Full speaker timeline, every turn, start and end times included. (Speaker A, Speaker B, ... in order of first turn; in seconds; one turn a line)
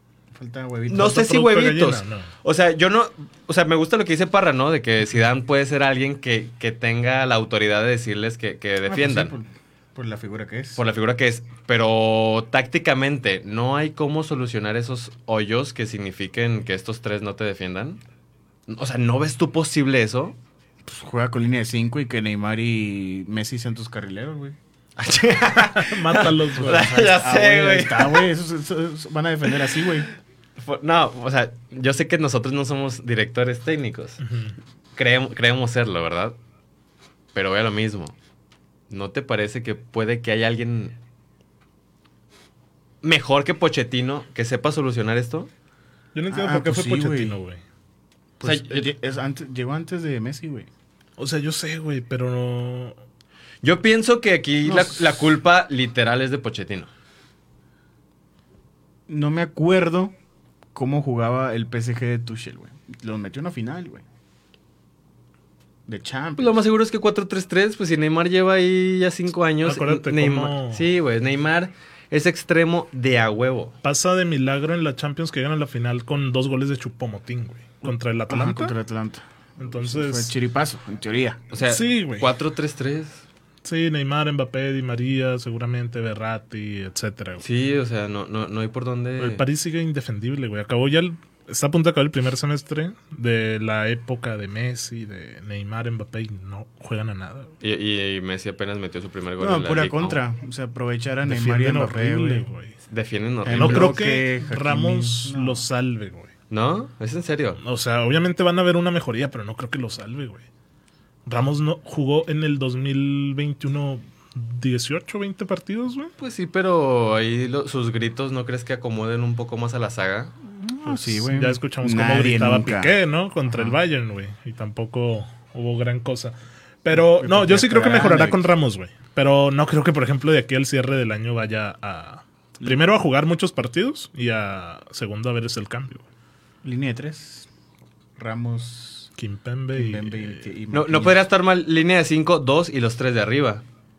Speaker A: 0.3-1.2
Speaker B: 0.9-9.3
Speaker C: 0.9-2.3
Speaker A: 8.8-10.8
Speaker B: 10.8-18.0
Speaker B: 18.7-20.4
Speaker A: 20.8-24.6
Speaker B: 25.0-28.3
Speaker C: 25.6-26.9
Speaker A: 26.6-30.1
Speaker B: 30.6-34.2
Speaker C: 34.2-34.5
Speaker B: 35.0-36.4
Speaker B: 37.3-38.1
Speaker B: 38.9-41.0
Speaker B: 43.0-45.5
Speaker C: 46.1-47.6
Speaker A: 46.3-47.4
Speaker A: 48.4-50.7
Speaker B: 48.4-48.9
Speaker C: 51.2-53.0
Speaker B: 53.6-56.9
Speaker A: 54.6-55.2
Speaker A: 59.1-60.1
Speaker A: 60.7-64.0
Speaker A: 65.8-66.6
Speaker B: 66.4-73.8
Speaker C: 69.6-70.8
Speaker C: 73.8-78.8
Speaker A: 77.8-81.4
Speaker C: 79.6-80.3
Speaker B: 81.5-83.2
Speaker C: 81.6-82.3
Speaker C: 83.6-87.4
Speaker B: 87.4-89.5
Speaker C: 89.2-97.5
Speaker B: 97.6-100.2
Speaker A: 99.4-102.5
Speaker C: 101.2-102.8
Speaker B: 102.9-104.0
Speaker A: 103.4-105.6
Speaker C: 103.5-106.3
Speaker B: 106.5-107.6
Speaker C: 107.6-110.4
Speaker C: 111.2-116.1
Speaker B: 116.2-120.3
Speaker A: 120.5-123.8
Speaker C: 120.8-136.0
Speaker A: 126.9-128.5
Speaker A: 136.6-137.5
Speaker A: 138.2-139.1
Speaker C: 139.2-140.5
Speaker A: 139.7-141.2
Speaker B: 140.7-143.6